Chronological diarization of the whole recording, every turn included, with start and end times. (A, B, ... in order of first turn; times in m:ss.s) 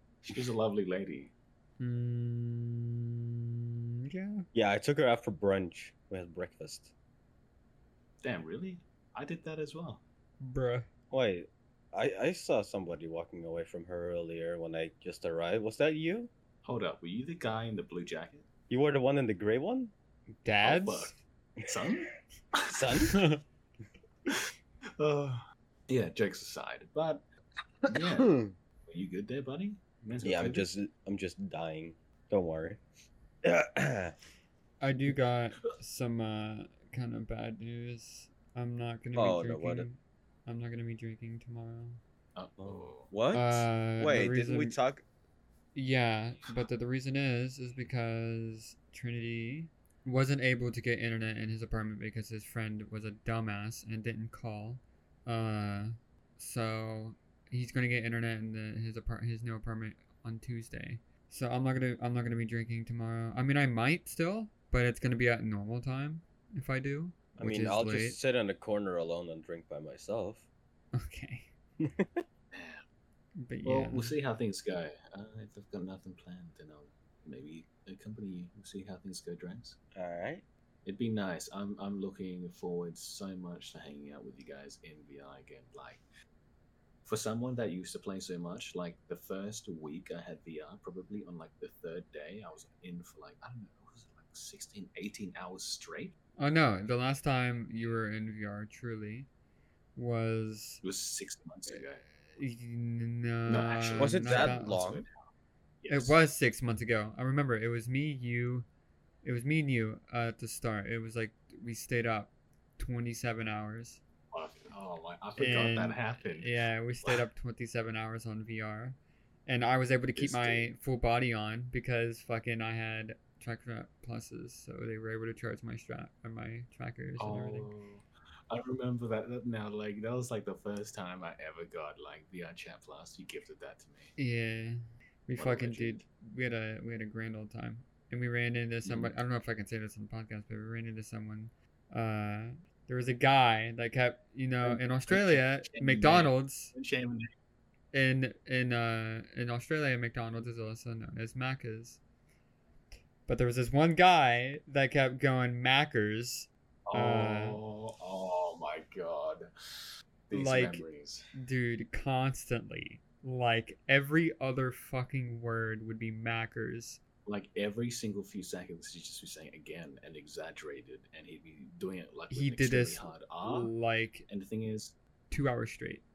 0:00.2-0:01.3 A
0:01.8-0:03.4 B
0:04.0-0:04.4 B
0:04.5-0:06.9 C
0:08.2-0:10.0 A
0:10.4-0:10.9 B
0:11.1-0:16.3 C
0:16.6-0:18.5 A
0:18.7-0:19.9 C
0:20.4-0:21.2 B
0:20.6-0:23.1 A
0:22.7-0:23.2 C
0:23.1-0:23.4 B
0:25.0-0:27.2 A
0:27.9-0:30.7 A
0:27.9-0:28.5 C
0:30.2-0:32.8 C
0:33.4-0:34.2 C
0:34.8-0:42.0 B
0:39.1-0:39.9 C
0:42.4-0:43.1 A
0:42.6-0:45.0 C
0:43.3-0:44.8 B
0:45.7-1:08.2 B
1:07.4-1:10.4 C
1:10.9-1:11.5 B
1:11.8-1:12.2 C
1:12.5-1:12.8 A
1:13.4-1:14.2 B
1:13.6-1:19.8 A
1:19.9-1:20.4 C
1:20.8-1:26.0 A
1:27.0-1:36.2 A
1:36.4-1:39.3 B
1:40.0-1:40.8 B
1:40.8-1:42.0 A
1:41.7-1:44.9 B
1:43.5-1:45.1 A
1:44.0-1:45.0 C
1:45.8-1:46.2 A
1:45.9-1:48.7 B
1:49.2-1:54.0 B
1:54.3-1:56.5 A
1:55.4-2:07.7 B
2:00.2-2:00.5 C
2:00.2-2:00.7 A
2:07.2-2:14.1 A
2:14.2-2:26.7 B
2:15.4-2:16.0 A
2:24.6-2:27.3 A
2:27.9-2:32.0 B
2:33.3-2:37.6 B
2:36.9-2:39.5 A
2:40.3-2:41.3 A
2:40.3-2:47.0 B
2:47.2-2:53.7 A
2:52.3-2:54.2 B
2:54.3-2:55.0 A
2:55.3-2:56.0 B